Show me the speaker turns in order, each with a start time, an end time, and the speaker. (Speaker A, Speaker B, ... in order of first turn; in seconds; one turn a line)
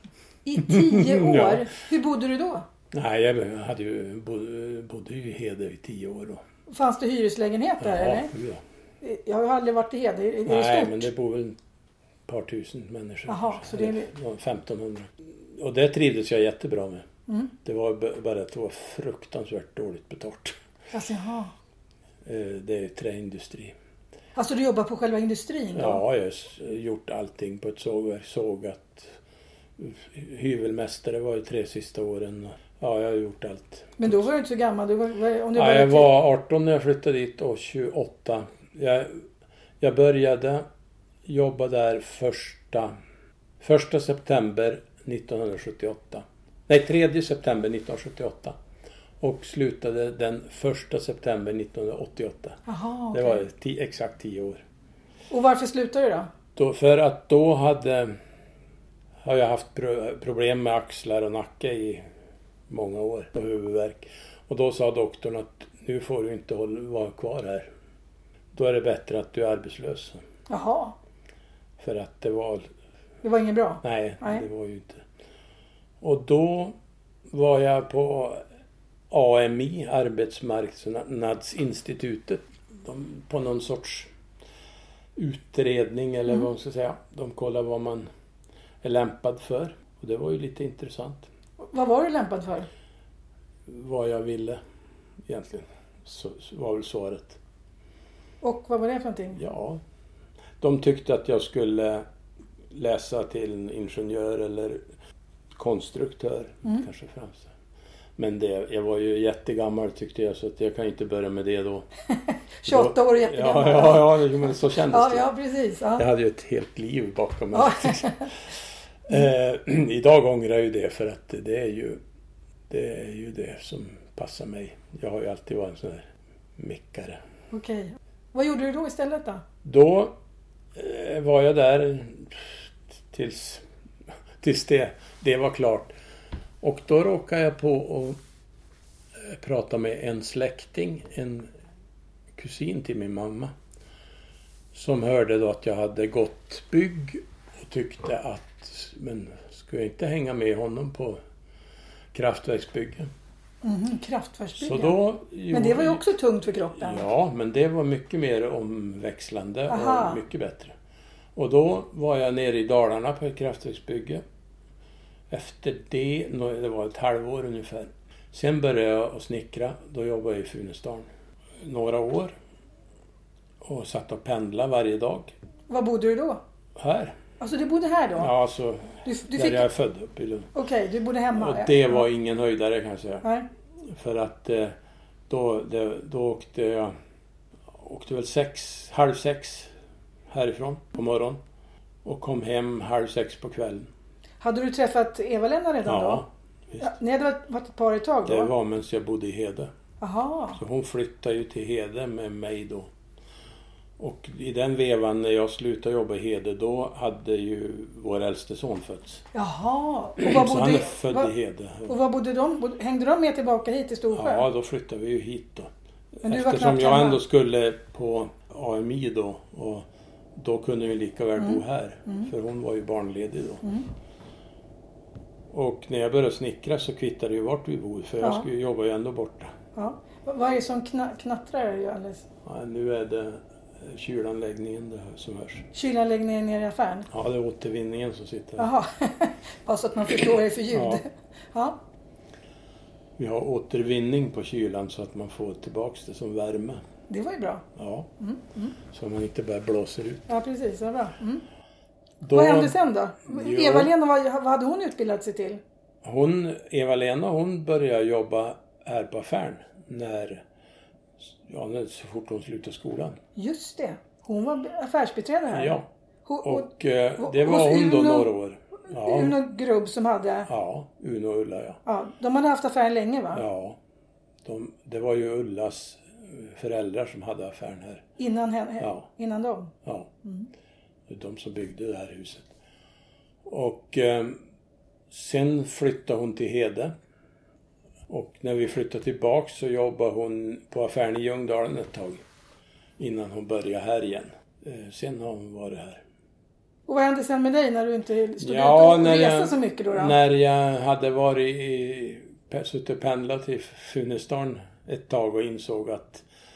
Speaker A: 0.4-2.6
Speaker B: 0.6-1.7
Speaker B: 2.9-6.4
Speaker A: 6.7-8.3
Speaker B: 7.8-8.6
Speaker A: 9.0-11.1
Speaker B: 10.4-11.6
Speaker B: 12.3-17.0
Speaker A: 13.3-14.1
Speaker B: 17.6-20.6
Speaker A: 20.9-21.5
Speaker B: 22.2-23.7
Speaker A: 24.4-26.0
Speaker B: 25.7-29.2
Speaker B: 29.8-34.3
Speaker A: 34.0-36.1
Speaker B: 35.5-39.2
Speaker B: 39.8-40.6
Speaker B: 41.2-42.9
Speaker B: 43.6-48.5
Speaker B: 49.2-52.6
Speaker A: 52.7-53.4
Speaker B: 53.1-54.6
Speaker A: 55.3-56.3
Speaker B: 56.5-58.1
Speaker B: 59.2-62.0
Speaker B: 62.7-67.7
Speaker B: 68.5-70.2
Speaker A: 70.5-70.9
Speaker B: 71.8-72.7
Speaker A: 73.2-74.4
Speaker B: 73.8-75.0
Speaker B: 76.0-76.8
Speaker B: 77.3-78.4
Speaker B: 79.1-84.1
Speaker B: 85.2-88.1
Speaker B: 88.8-91.3
Speaker A: 91.6-92.7
Speaker B: 93.7-94.6
Speaker B: 95.2-97.4
Speaker A: 98.4-99.4
Speaker B: 99.3-99.8
Speaker B: 100.6-102.0
Speaker B: 102.7-104.8
Speaker B: 105.5-107.5
Speaker B: 108.2-111.9
Speaker A: 112.1-114.2
Speaker B: 112.7-115.3
Speaker A: 114.9-116.0
Speaker B: 116.0-122.0
Speaker A: 117.5-118.2
Speaker B: 122.7-127.2
Speaker A: 127.5-129.4
Speaker B: 129.6-130.2
Speaker B: 130.7-133.6
Speaker B: 134.4-135.9
Speaker B: 136.6-138.2
Speaker B: 139.2-141.5
Speaker B: 142.3-143.5
Speaker B: 144.7-151.2
Speaker B: 152.1-153.1
Speaker A: 153.6-155.0
Speaker B: 154.6-156.0
Speaker A: 155.5-157.1
Speaker B: 156.8-160.7
Speaker A: 159.7-160.2
Speaker B: 161.3-164.2
Speaker B: 165.3-171.1
Speaker B: 171.6-172.3
Speaker B: 173.6-175.3
Speaker A: 175.7-176.4
Speaker B: 176.8-177.2
Speaker A: 177.4-178.3
Speaker B: 178.2-180.5
Speaker A: 179.0-179.6
Speaker A: 180.5-182.0
Speaker B: 181.3-183.2
Speaker B: 183.8-184.7
Speaker B: 185.3-186.9
Speaker B: 187.7-189.7
Speaker B: 190.3-191.4
Speaker B: 192.0-193.9
Speaker A: 194.4-196.2
Speaker B: 195.8-196.9
Speaker A: 196.8-198.5
Speaker B: 198.2-199.7
Speaker A: 200.0-200.6
Speaker B: 200.6-202.9
Speaker B: 204.0-209.2
Speaker A: 209.3-211.3
Speaker B: 210.2-212.0
Speaker A: 211.9-214.5
Speaker B: 214.1-223.6
Speaker A: 216.2-217.2
Speaker A: 221.4-222.3
Speaker B: 225.5-229.5
Speaker A: 228.2-228.4
Speaker A: 229.7-232.2
Speaker B: 232.4-235.7
Speaker A: 235.7-237.1
Speaker B: 237.1-238.7
Speaker A: 238.6-241.8
Speaker B: 240.7-241.0
Speaker B: 243.2-246.8
Speaker A: 247.1-247.6
Speaker B: 247.8-248.1
Speaker A: 248.2-248.8
Speaker B: 248.9-250.3
Speaker A: 250.3-251.4
Speaker B: 252.2-253.9
Speaker A: 252.3-255.6
Speaker B: 256.0-260.4
Speaker B: 261.4-263.2
Speaker A: 263.4-268.3
Speaker B: 265.5-265.9
Speaker B: 266.4-269.4
Speaker A: 268.9-270.5
Speaker B: 270.5-271.8
Speaker A: 271.9-273.4
Speaker B: 273.3-273.8
Speaker B: 274.4-278.0
Speaker A: 278.2-279.7
Speaker B: 278.8-279.1
Speaker B: 279.8-280.1
Speaker B: 281.1-282.5
Speaker B: 283.4-284.4
Speaker B: 285.1-286.9
Speaker B: 288.1-292.2
Speaker B: 293.0-296.0
Speaker A: 296.9-300.1
Speaker B: 298.4-306.2